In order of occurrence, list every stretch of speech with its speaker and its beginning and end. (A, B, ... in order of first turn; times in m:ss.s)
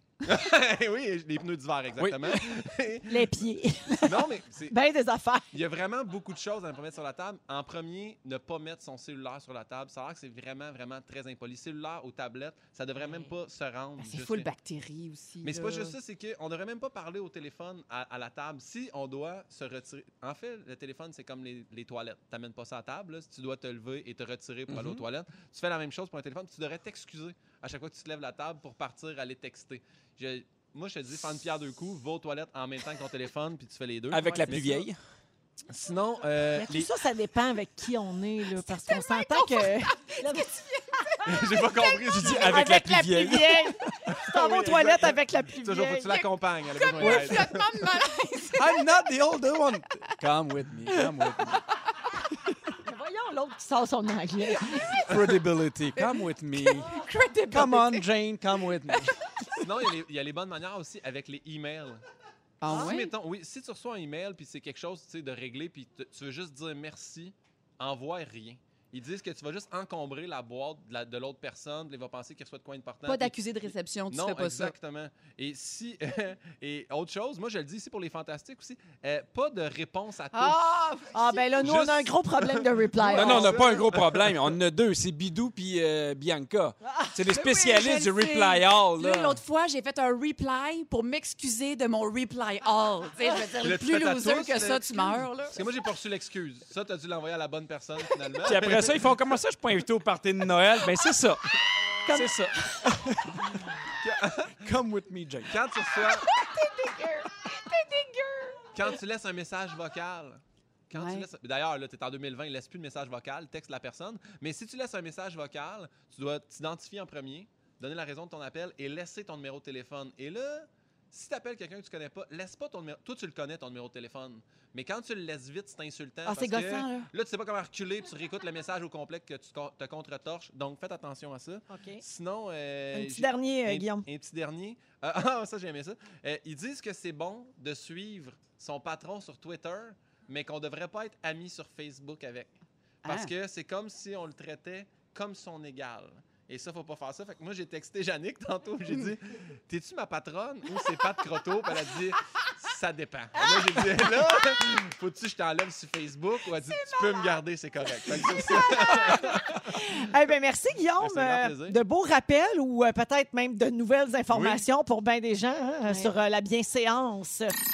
0:00.2-0:03.3 A
0:02.0-0:02.5 B
0:03.1-0:05.6 C
0:04.0-0:04.8 A
0:05.5-0:14.5 A
0:13.0-0:13.3 D
0:14.0-0:16.0 D
0:15.4-0:34.8 A
0:24.7-0:25.0 B
0:34.1-0:35.0 B
0:34.3-0:34.6 D
0:35.7-0:36.9 A
0:36.6-0:40.5 C
0:38.8-0:42.1 D
0:41.2-0:42.7 A
0:42.1-0:44.0 B
0:42.4-0:46.2 C
0:44.1-0:47.7 A
0:46.1-0:48.8 D
0:47.0-0:47.4 B
0:48.6-0:51.6 B
0:52.8-0:55.0 C
0:54.7-0:55.1 D
0:55.1-0:57.0 B
0:56.0-0:58.0 D
0:57.5-0:59.1 B
0:59.6-1:02.0 A
1:02.6-1:03.1 D
1:02.7-1:13.4 A
1:13.0-1:14.8 D
1:14.1-1:20.7 A
1:20.3-1:21.6 D
1:21.1-1:23.7 C
1:21.6-1:24.5 A
1:23.1-1:29.4 B
1:26.8-1:27.2 C
1:27.3-1:35.6 D
1:33.6-1:39.0 A
1:38.4-1:41.6 B
1:42.0-1:42.9 C
1:42.1-1:43.7 B
1:44.0-1:44.6 A
1:44.6-1:45.6 B
1:45.5-1:46.3 A
1:46.1-1:48.5 D
1:46.4-1:48.5 C
1:48.7-2:39.8 A
1:50.9-1:51.3 D
2:06.3-2:07.1 C
2:11.7-2:12.0 C
2:12.9-2:14.1 C
2:23.0-2:23.3 D
2:36.6-2:37.4 D
2:38.6-2:47.6 C
2:41.0-2:41.8 A
2:44.3-2:44.6 A